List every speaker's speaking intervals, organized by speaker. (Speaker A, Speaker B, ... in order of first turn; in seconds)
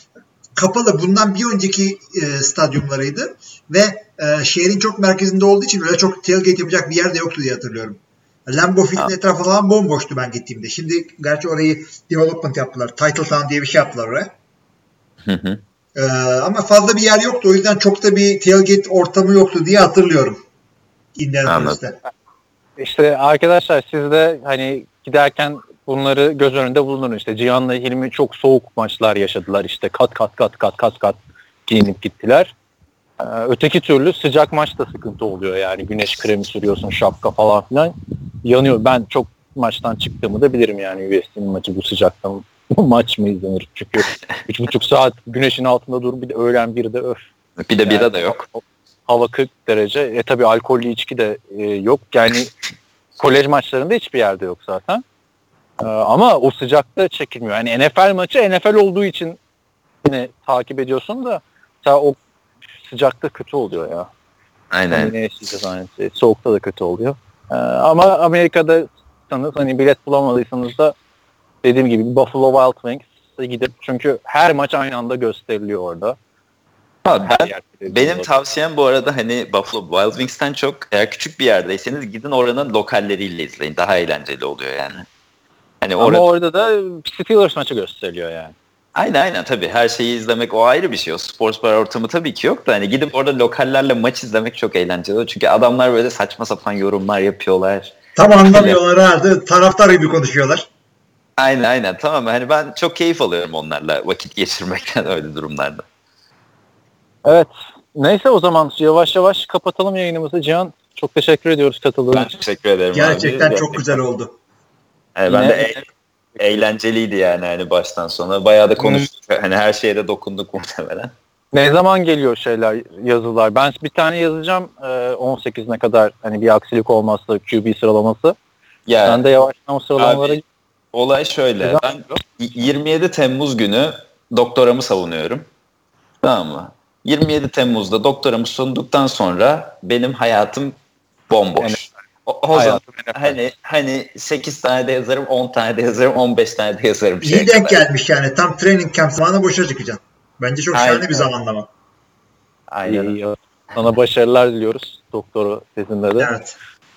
Speaker A: 0.6-14.3, 15.9-20.4, 21.2-22.0, 98.2-100.7, 112.9-114.3, 147.2-151.7, 156.2-156.6
Speaker B: 15.3-15.6, 21.5-21.8, 47.6-48.5, 64.7-65.2, 77.0-85.1, 85.8-86.2, 89.0-98.8, 101.4-105.8, 112.1-114.0, 115.2-115.8, 116.4-121.1, 128.9-129.2, 130.0-130.4, 130.9-135.5, 136.2-140.8, 141.3-147.8, 150.7-151.3, 152.7-153.2
Speaker C: 22.8-32.5, 33.2-47.2, 47.8-52.5, 53.2-55.0, 55.8-59.4, 60.0-62.2, 62.9-64.1, 64.9-71.0, 71.6-76.2, 77.1-78.4, 86.0-88.5, 107.2-112.3, 115.3-116.6, 118.8-119.1, 121.5-128.4, 129.1-130.4, 131.6-132.2, 141.6-141.9, 142.5-143.4, 152.8-156.3